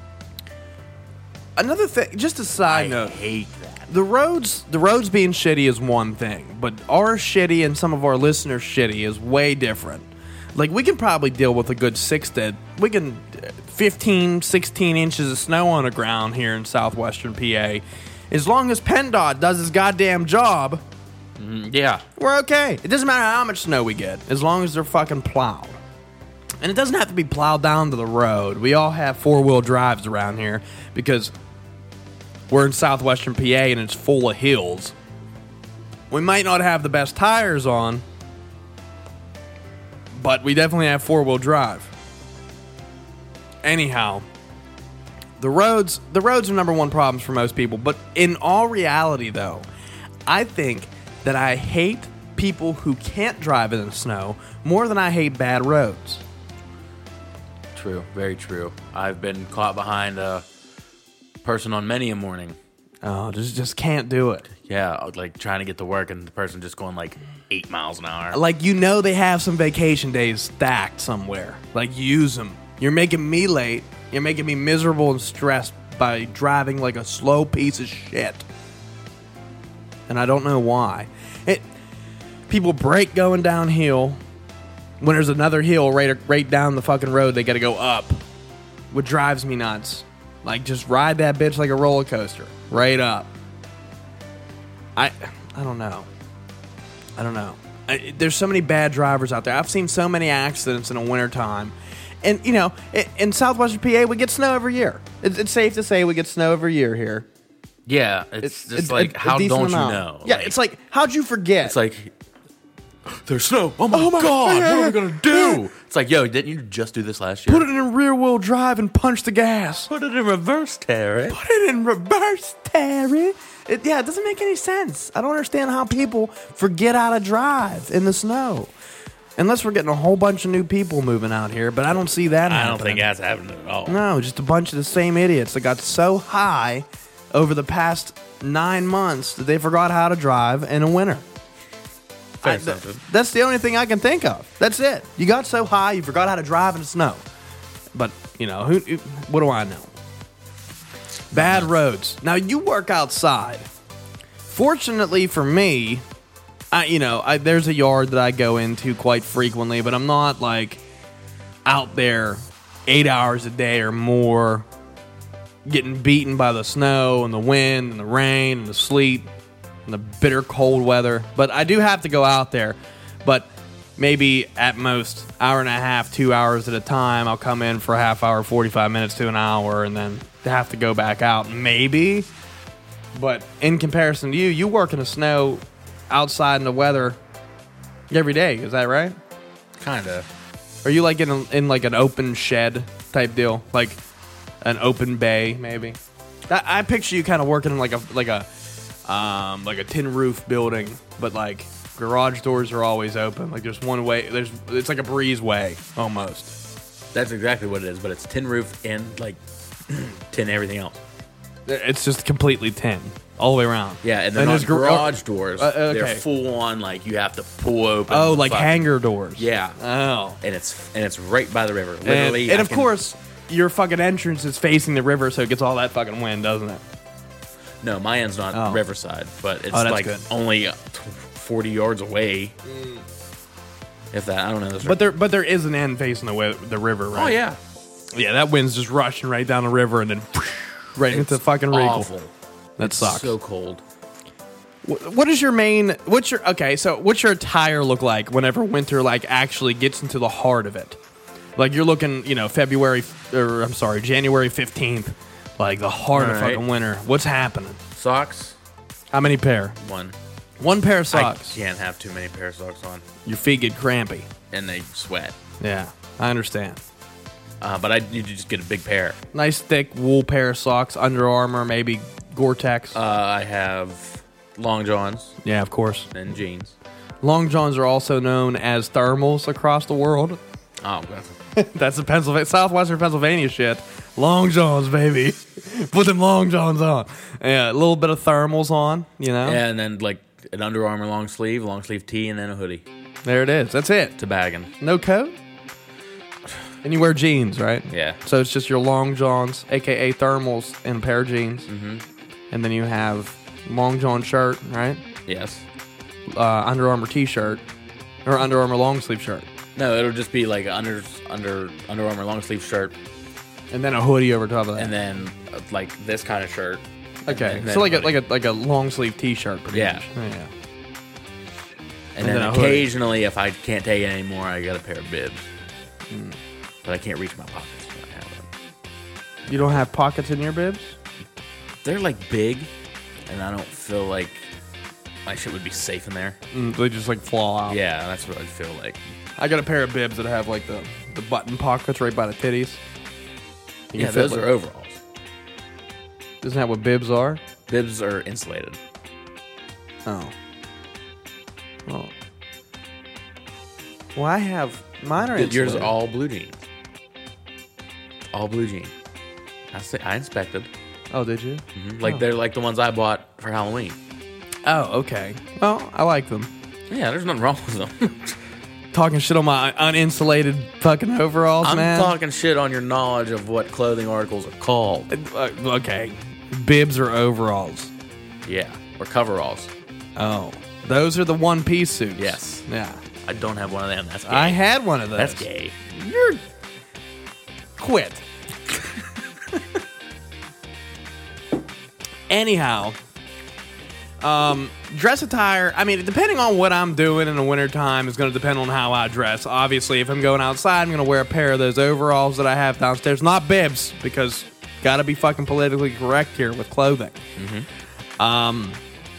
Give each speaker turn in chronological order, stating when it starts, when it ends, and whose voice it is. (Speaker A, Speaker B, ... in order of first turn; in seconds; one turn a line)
Speaker A: 1.6-3.2
Speaker B: 2.7-3.9
Speaker A: 3.9-20.8
Speaker B: 21.4-22.0
Speaker A: 22.2-25.8
Speaker A: 26.6-31.3
Speaker A: 32.5-34.9
Speaker A: 36.1-38.0
Speaker A: 40.1-41.9
Speaker A: 43.6-44.3
Speaker A: 45.4-49.7
Speaker A: 50.3-56.2
Speaker B: 57.8-60.4
Speaker B: 61.4-62.6
Speaker A: 63.0-64.5
Speaker B: 64.6-68.4
Speaker A: 68.3-78.5
Speaker A: 80.1-81.6
Speaker A: 82.5-84.2
Speaker A: 85.0-88.2
Speaker A: 88.9-93.3
Speaker A: 95.0-96.1
Speaker A: 97.2-107.3
Speaker B: 107.9-110.5
Speaker A: 108.4-111.8
Speaker B: 111.6-112.1
Speaker B: 113.1-117.7
Speaker A: 113.9-115.6
Speaker A: 117.5-119.9
Speaker B: 119.9-121.4
Speaker A: 121.3-128.7
Speaker A: 129.4-133.1
Speaker B: 132.3-134.0
Speaker A: 133.9-141.2
Speaker B: 142.4-143.0
Speaker A: 142.4-147.2
Speaker A: 147.9-149.9
Speaker A: 151.3-153.7
Speaker B: 151.4-151.7
Speaker A: 154.5-156.0
Speaker A: 156.7-160.8
Speaker A: 161.7-164.7
Speaker A: 165.7-169.3
Speaker A: 169.9-182.3
Speaker A: 183.2-187.2
Speaker A: 188.1-189.2
Speaker B: 189.8-190.3
Speaker A: 190.8-194.0
Speaker A: 194.6-196.0
Speaker A: 196.5-198.5
Speaker A: 199.1-206.5
Speaker B: 207.1-211.0
Speaker A: 211.7-216.2
Speaker B: 214.0-219.8
Speaker A: 218.1-220.4
Speaker B: 220.4-222.9
Speaker A: 222.0-226.8
Speaker B: 227.8-232.6
Speaker A: 228.5-228.8
Speaker A: 229.7-230.2
Speaker A: 232.7-233.0
Speaker B: 234.1-235.1
Speaker A: 234.8-237.4
Speaker B: 237.1-237.6
Speaker A: 238.1-242.1
Speaker B: 241.1-243.8
Speaker A: 242.8-243.3
Speaker A: 244.8-251.0
Speaker A: 251.6-257.8
Speaker B: 256.1-256.6
Speaker B: 257.9-258.6
Speaker A: 259.1-259.8
Speaker B: 259.8-260.2
Speaker A: 260.6-261.6
Speaker B: 261.1-263.1
Speaker A: 263.2-264.3
Speaker B: 264.5-265.4
Speaker A: 265.6-266.8
Speaker B: 267.6-269.2
Speaker A: 269.3-273.0
Speaker B: 272.9-275.4
Speaker A: 275.4-276.1
Speaker B: 276.1-276.8
Speaker A: 277.2-280.4
Speaker B: 280.8-281.4
Speaker A: 281.6-289.6
Speaker B: 289.4-292.8
Speaker A: 293.2-294.2
Speaker B: 294.2-294.7
Speaker A: 294.8-295.4
Speaker A: 296.8-301.7
Speaker B: 297.9-298.2
Speaker B: 301.7-302.0
Speaker A: 302.5-305.0
Speaker B: 305.3-305.6
Speaker A: 306.3-307.6
Speaker A: 308.3-309.5
Speaker B: 309.8-312.9
Speaker A: 313.7-314.9
Speaker B: 314.8-318.2
Speaker A: 317.3-320.5
Speaker B: 319.7-320.0
Speaker B: 322.1-325.5
Speaker A: 322.2-322.9
Speaker A: 326.1-326.4
Speaker B: 326.8-328.5
Speaker A: 329.5-331.0
Speaker B: 331.8-332.7
Speaker B: 333.3-334.4
Speaker B: 335.3-336.4
Speaker A: 336.5-337.8
Speaker B: 337.7-339.0
Speaker A: 339.4-342.8
Speaker A: 343.9-344.5
Speaker B: 344.0-345.0
Speaker A: 346.4-347.4
Speaker B: 347.7-348.8
Speaker A: 350.1-350.3
Speaker A: 351.9-352.1
Speaker A: 354.2-355.9
Speaker B: 355.3-356.6
Speaker B: 358.3-358.9
Speaker B: 359.7-360.7
Speaker A: 361.1-362.2
Speaker B: 361.8-364.0
Speaker A: 364.6-366.5
Speaker B: 366.9-368.4
Speaker A: 368.9-372.1
Speaker B: 371.6-375.1
Speaker A: 375.1-377.9
Speaker B: 378.5-379.7
Speaker A: 380.2-383.0
Speaker B: 382.2-382.7
Speaker B: 383.2-384.6
Speaker A: 384.3-386.4
Speaker B: 385.2-386.0
Speaker A: 387.8-388.2
Speaker A: 392.3-393.0
Speaker A: 394.2-407.2
Speaker B: 407.4-407.7
Speaker A: 408.2-408.8